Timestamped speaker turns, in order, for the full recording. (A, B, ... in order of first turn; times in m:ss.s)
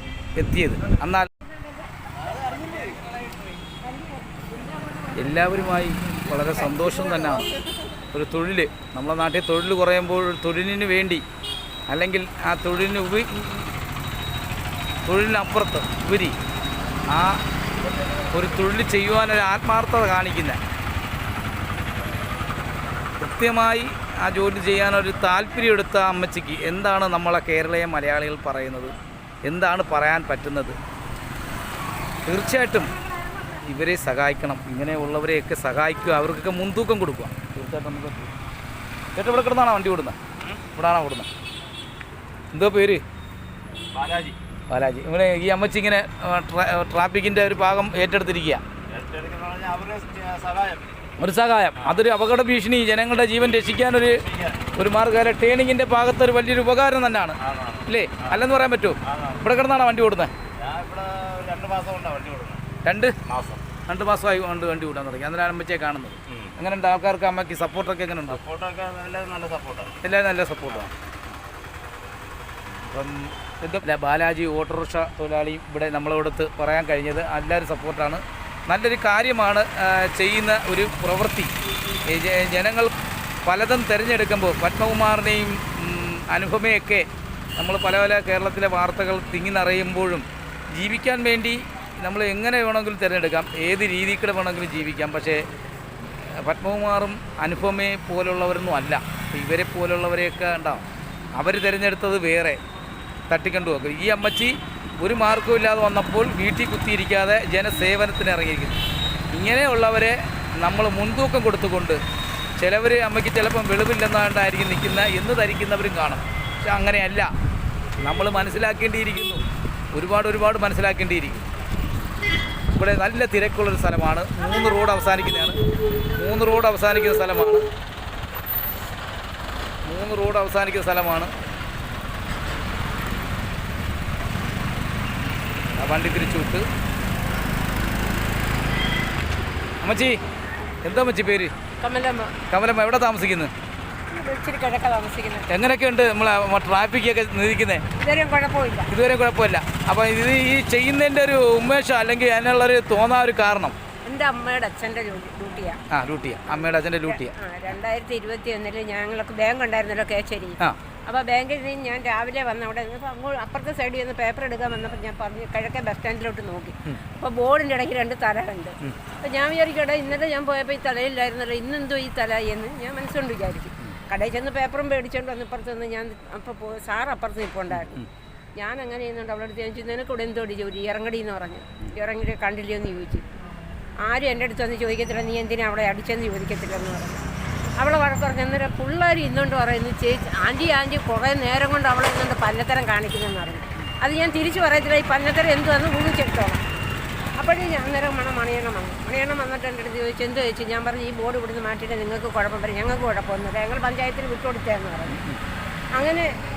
0:00.4-0:01.3 A
0:05.2-0:07.5 A
0:08.1-0:11.2 A
0:11.9-0:13.7 A
0:15.0-0:16.4 A
0:17.1-0:17.4 A
0:18.3-0:20.6 A
0:23.2-0:28.9 A
0:29.5-0:30.8 A
0:32.3-0:33.0 A
0:33.6-0:38.3 A
0:39.2-0:40.2 A
0:40.7-0:41.3 A
0:42.5-0:43.0 A
0:43.9-0:44.4 B
0:44.7-0:48.6 A
0:48.9-0:50.9 B
0:51.2-1:00.3 A
0:57.4-0:57.8 B
1:00.6-1:02.6 B
1:02.8-1:03.2 A
1:03.3-1:03.6 B
1:03.8-1:08.4 A
1:08.4-1:10.0 B
1:10.0-1:10.9 A
1:12.8-1:21.5 A
1:22.1-1:22.9 A
1:23.4-1:27.1 A
1:27.6-1:35.4 A
1:36.4-1:40.8 A
1:41.4-1:42.6 A
1:43.3-1:48.8 A
1:49.3-1:52.0 A
1:52.6-1:57.3 A
1:58.0-2:01.4 A
2:02.7-2:05.6 A
2:06.1-2:07.7 A
2:09.8-2:11.3 A
2:15.8-2:16.6 A
2:19.8-2:20.2 A
2:20.8-2:21.5 A
2:21.8-2:22.4 C
2:22.5-2:23.5 A
2:24.1-2:25.5 C
2:25.5-2:27.8 A
2:28.0-2:28.9 C
2:28.9-2:33.8 A
2:34.0-2:35.8 C
2:35.9-2:37.3 A
2:37.0-2:58.0 C
2:57.7-2:58.1 A
2:58.6-3:03.3 C
3:04.0-3:07.2 C
3:07.8-3:16.6 C
3:17.4-3:25.2 C
3:25.1-3:25.4 A
3:25.9-3:26.3 C